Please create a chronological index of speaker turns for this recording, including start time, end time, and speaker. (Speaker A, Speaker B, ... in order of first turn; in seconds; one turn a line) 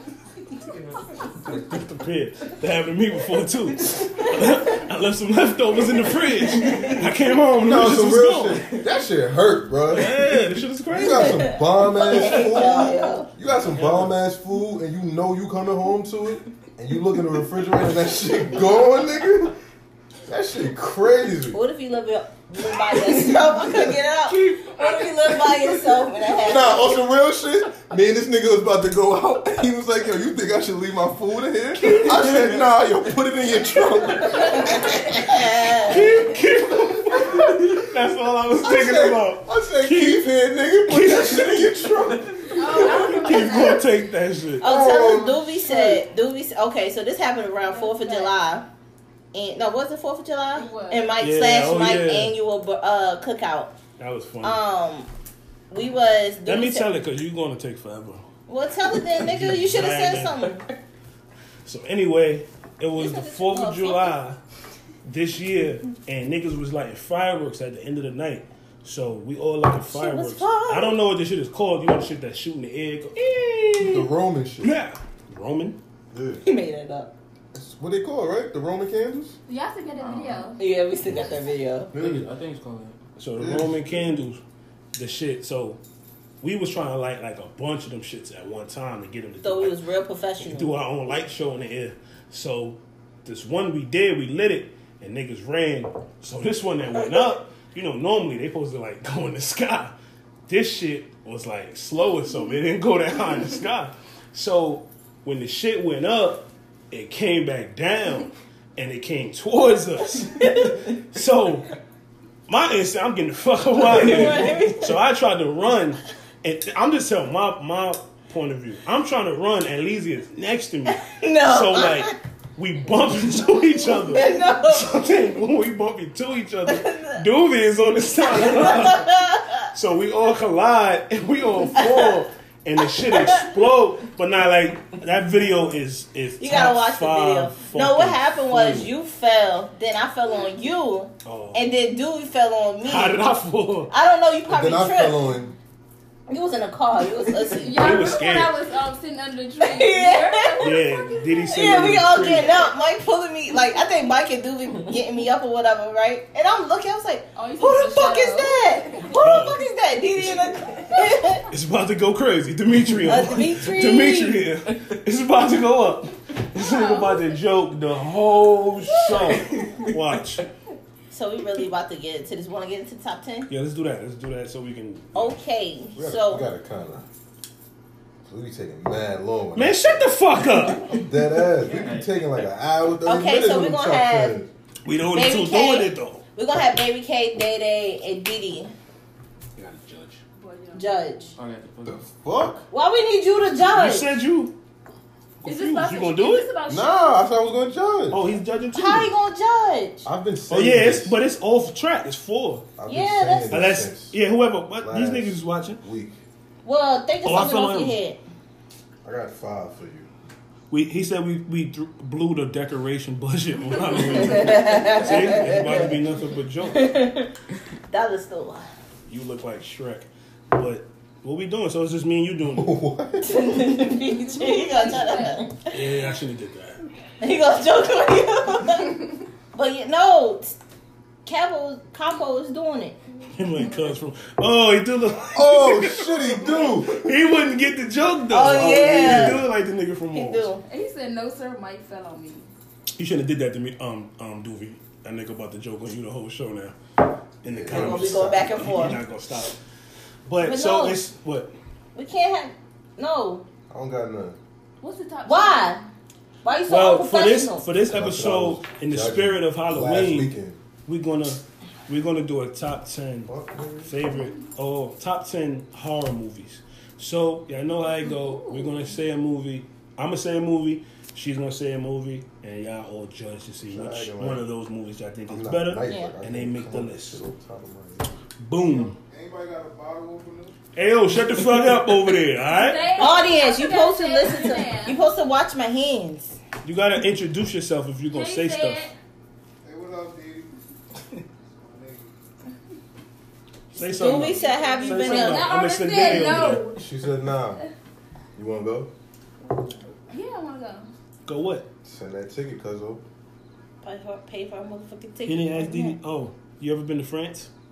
Speaker A: 0.7-1.0
Speaker B: 1.4-8.6
Speaker A: 6.5-7.0
Speaker C: 7.6-10.4
Speaker B: 9.9-11.6
Speaker C: 10.9-19.5
Speaker D: 11.1-13.3
Speaker A: 13.7-14.1
Speaker C: 20.3-21.6
Speaker D: 21.5-26.9
Speaker A: 24.4-25.0
Speaker C: 26.4-34.8
Speaker A: 31.9-32.6
Speaker D: 34.4-36.1
Speaker B: 35.9-41.9
Speaker C: 38.6-43.6
Speaker E: 42.5-43.9
Speaker B: 42.6-44.6
Speaker D: 44.6-48.6
Speaker C: 44.6-46.0
Speaker E: 47.6-48.4
Speaker D: 49.3-53.7
Speaker E: 50.5-51.2
Speaker B: 51.2-52.3
Speaker B: 54.0-54.6
Speaker D: 54.4-55.1
Speaker D: 55.7-56.9
Speaker B: 56.5-58.2
Speaker D: 58.5-60.6
Speaker B: 59.2-60.5
Speaker B: 61.6-64.4
Speaker D: 62.9-64.2
Speaker B: 65.0-73.2
Speaker D: 69.9-71.0
Speaker D: 73.2-74.1
Speaker C: 73.8-74.7
Speaker B: 74.6-75.8
Speaker C: 76.1-76.4
Speaker D: 76.4-77.1
Speaker C: 77.5-79.3
Speaker E: 79.5-80.6
Speaker A: 80.0-80.5
Speaker D: 80.6-81.9
Speaker A: 81.9-83.0
Speaker C: 81.9-82.3
Speaker B: 83.2-84.4
Speaker C: 83.4-84.2
Speaker B: 84.9-85.8
Speaker B: 86.4-89.8
Speaker D: 89.4-90.8
Speaker B: 90.4-99.9
Speaker B: 100.5-111.7
Speaker B: 112.5-129.1
Speaker D: 113.8-115.0
Speaker D: 121.0-122.1
Speaker D: 123.9-125.0
Speaker D: 126.7-127.2
Speaker D: 128.3-129.7
Speaker B: 129.7-138.9
Speaker D: 131.8-132.2
Speaker D: 132.8-133.5
Speaker D: 136.4-143.2
Speaker B: 141.2-141.6
Speaker B: 142.8-143.9
Speaker D: 143.9-145.2
Speaker C: 144.5-145.5
Speaker D: 146.3-147.8
Speaker E: 147.4-152.6
Speaker B: 147.8-148.5
Speaker D: 149.6-150.8
Speaker B: 150.6-152.6
Speaker D: 151.5-161.4
Speaker E: 157.3-159.2
Speaker B: 159.1-159.6
Speaker B: 161.4-170.4
Speaker D: 163.0-164.4
Speaker E: 166.5-167.4
Speaker A: 169.3-169.9
Speaker D: 171.1-173.5
Speaker B: 173.5-175.4
Speaker D: 175.1-176.5
Speaker C: 175.9-177.1
Speaker C: 178.2-180.0
Speaker B: 179.5-181.0
Speaker C: 180.9-184.5
Speaker A: 181.6-182.5
Speaker D: 183.0-184.4
Speaker B: 184.8-186.2
Speaker D: 185.1-188.7
Speaker B: 189.6-190.2
Speaker E: 190.4-191.2
Speaker D: 190.7-191.3
Speaker A: 191.3-192.1
Speaker C: 191.8-192.6
Speaker D: 192.7-194.1
Speaker B: 193.6-194.5
Speaker B: 195.4-196.5
Speaker E: 195.4-197.1
Speaker C: 196.7-198.2
Speaker B: 198.1-199.1
Speaker D: 198.7-200.0
Speaker C: 200.0-201.2
Speaker B: 200.5-202.7
Speaker C: 202.8-204.2
Speaker D: 202.9-203.6
Speaker B: 203.5-205.8
Speaker C: 204.8-206.2
Speaker D: 206.6-208.2
Speaker B: 207.2-208.0
Speaker C: 209.0-210.1
Speaker B: 210.7-217.0
Speaker D: 214.2-215.9
Speaker E: 214.4-214.8
Speaker D: 216.7-217.3
Speaker D: 217.9-218.7
Speaker B: 219.1-222.8
Speaker C: 222.5-223.5
Speaker D: 223.2-225.8
Speaker E: 224.0-225.5
Speaker B: 225.7-226.8
Speaker D: 227.2-230.5
Speaker D: 231.2-232.9
Speaker B: 233.3-240.5
Speaker C: 235.3-237.2
Speaker D: 238.3-239.4
Speaker C: 238.4-239.4
Speaker D: 240.1-240.6
Speaker E: 240.7-242.5
Speaker B: 243.0-246.8
Speaker B: 247.4-249.6
Speaker C: 247.5-249.0
Speaker D: 247.7-249.0
Speaker B: 250.2-251.5
Speaker D: 250.4-251.0
Speaker D: 251.9-253.4
Speaker C: 253.7-254.4
Speaker E: 254.8-255.8
Speaker D: 255.2-255.8
Speaker D: 256.4-257.6
Speaker B: 256.7-260.3
Speaker C: 257.9-260.6
Speaker B: 260.9-263.3
Speaker C: 263.3-263.9
Speaker B: 263.8-277.2
Speaker E: 268.0-268.7
Speaker C: 273.7-274.5
Speaker C: 275.3-278.2
Speaker D: 275.9-276.1
Speaker B: 278.4-278.9
Speaker F: 278.6-280.6
Speaker B: 280.7-282.9
Speaker E: 282.4-285.0
Speaker D: 282.9-286.4
Speaker B: 286.6-288.9
Speaker E: 288.1-288.9
Speaker F: 289.6-290.5
Speaker F: 291.4-292.2
Speaker B: 293.7-296.7
Speaker D: 293.8-295.5
Speaker E: 293.8-296.9
Speaker C: 296.7-297.6
Speaker C: 298.3-298.9
Speaker E: 300.1-300.9
Speaker B: 301.2-301.7
Speaker C: 301.8-303.0
Speaker D: 303.8-306.0
Speaker B: 305.2-307.5